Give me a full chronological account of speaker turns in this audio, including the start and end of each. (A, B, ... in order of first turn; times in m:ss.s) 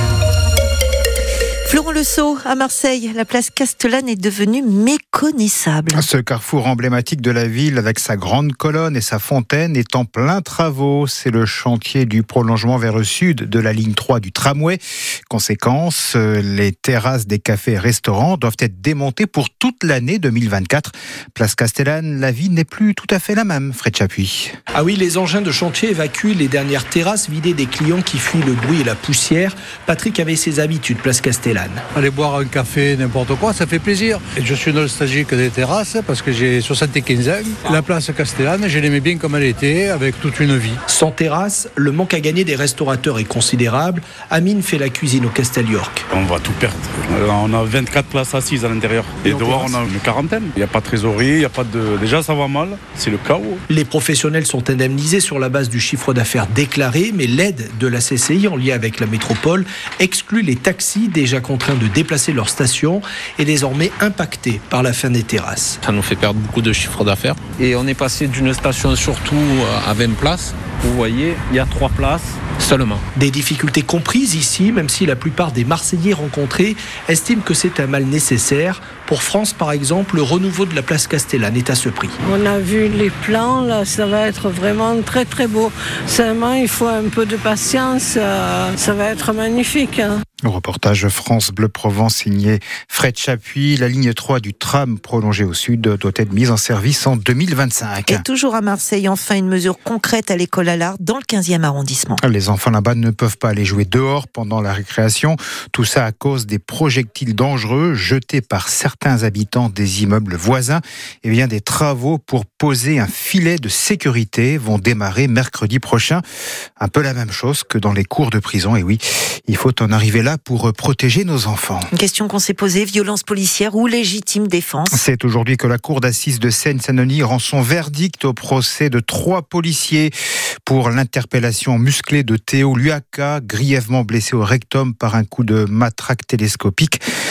0:01.6-0:06.0 A
0:05.9-0:24.5 B
0:24.7-0:31.8 C
0:32.0-0:40.8 D
0:40.9-0:46.0 C
0:46.1-0:53.6 E
0:49.3-0:49.8 D
0:53.7-1:05.8 C
1:05.8-1:13.0 F
1:13.1-1:22.2 C
1:22.2-1:30.2 G
1:30.4-1:38.2 B
1:38.1-1:42.2 A
1:42.2-1:56.2 B
1:56.8-2:01.9 B
2:01.9-2:05.0 A
2:04.9-2:10.1 B
2:10.6-2:17.0 B